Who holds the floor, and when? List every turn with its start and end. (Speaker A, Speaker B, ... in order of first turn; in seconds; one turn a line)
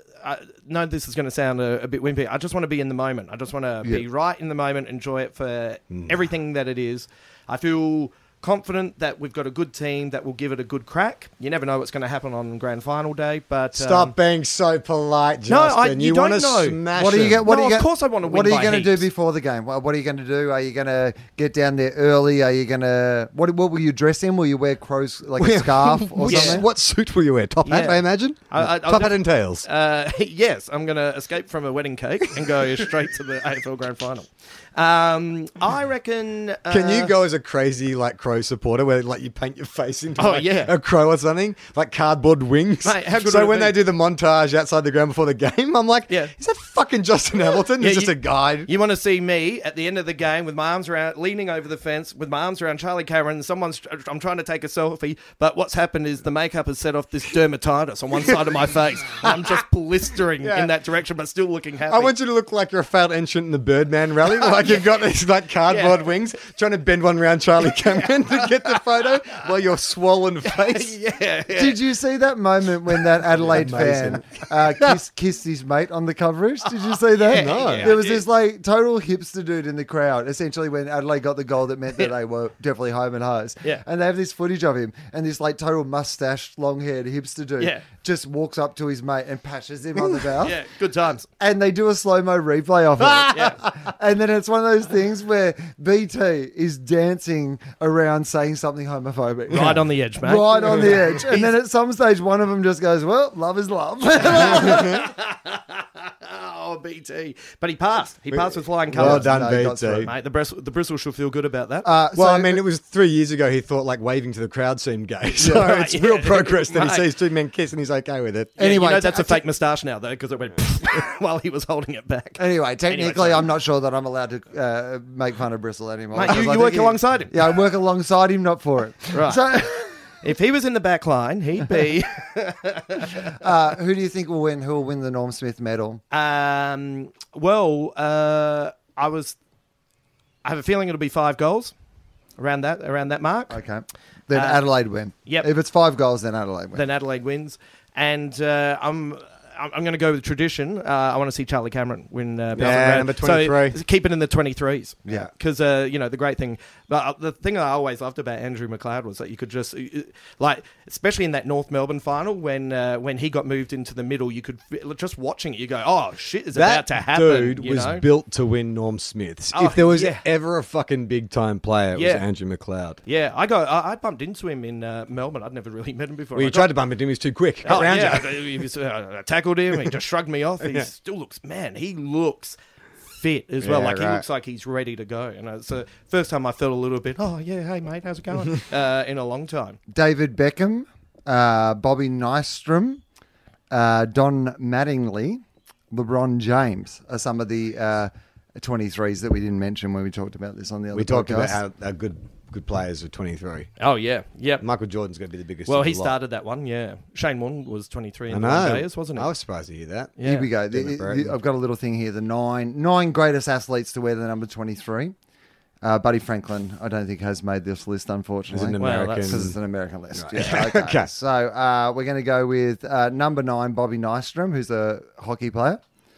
Speaker A: 0.2-14.2
Speaker B: 5.9-6.2
Speaker B: 13.8-17.5
Speaker A: 15.5-16.8
Speaker C: 16.9-26.7
Speaker A: 17.5-19.0
Speaker B: 25.4-29.7
Speaker A: 26.2-26.6
Speaker A: 27.7-37.1
Speaker B: 36.7-48.7
Speaker A: 40.2-40.7
Speaker A: 42.8-43.8
Speaker A: 47.8-48.1
Speaker A: 48.6-62.1
Speaker B: 60.4-60.7
Speaker B: 61.9-71.0
Speaker A: 65.7-66.0
Speaker A: 68.0-68.8
Speaker A: 70.5-71.8
Speaker C: 71.5-90.6
Speaker B: 73.4-74.5
Speaker A: 77.2-78.2
Speaker B: 77.3-78.0
Speaker A: 90.4-91.3
Speaker C: 91.4-105.0
Speaker A: 93.3-93.6
Speaker A: 99.5-101.5
Speaker B: 99.5-99.8
Speaker A: 104.3-109.4
Speaker B: 108.3-110.1
Speaker C: 108.9-110.1
Speaker A: 110.0-111.9
Speaker C: 111.8-112.6
Speaker B: 112.2-118.5
Speaker A: 115.4-117.0
Speaker A: 118.6-123.5
Speaker C: 118.6-119.4
Speaker C: 122.4-130.0
Speaker A: 126.1-127.3
Speaker A: 129.1-129.5
Speaker A: 130.2-133.2
Speaker C: 133.2-136.0
Speaker A: 136.1-139.4
Speaker A: 140.4-141.7
Speaker A: 142.4-143.6
Speaker C: 143.5-146.8
Speaker A: 144.3-144.6
Speaker A: 146.7-168.1
Speaker B: 152.6-153.8
Speaker B: 166.6-173.0
Speaker A: 169.5-170.2
Speaker A: 171.9-172.2
Speaker A: 173.1-176.7
Speaker B: 176.3-178.5
Speaker A: 177.7-182.6
Speaker B: 180.6-180.9
Speaker A: 183.1-189.8
Speaker B: 183.6-184.2
Speaker C: 189.9-193.0
Speaker C: 193.7-201.6
Speaker B: 200.9-203.7
Speaker A: 203.8-204.6
Speaker B: 204.6-206.2
Speaker A: 205.7-209.3
Speaker B: 208.3-210.2
Speaker A: 210.2-210.5
Speaker C: 210.2-215.2
Speaker B: 210.7-211.3
Speaker C: 215.8-225.8
Speaker B: 218.5-219.6
Speaker A: 218.8-219.4
Speaker B: 220.1-221.1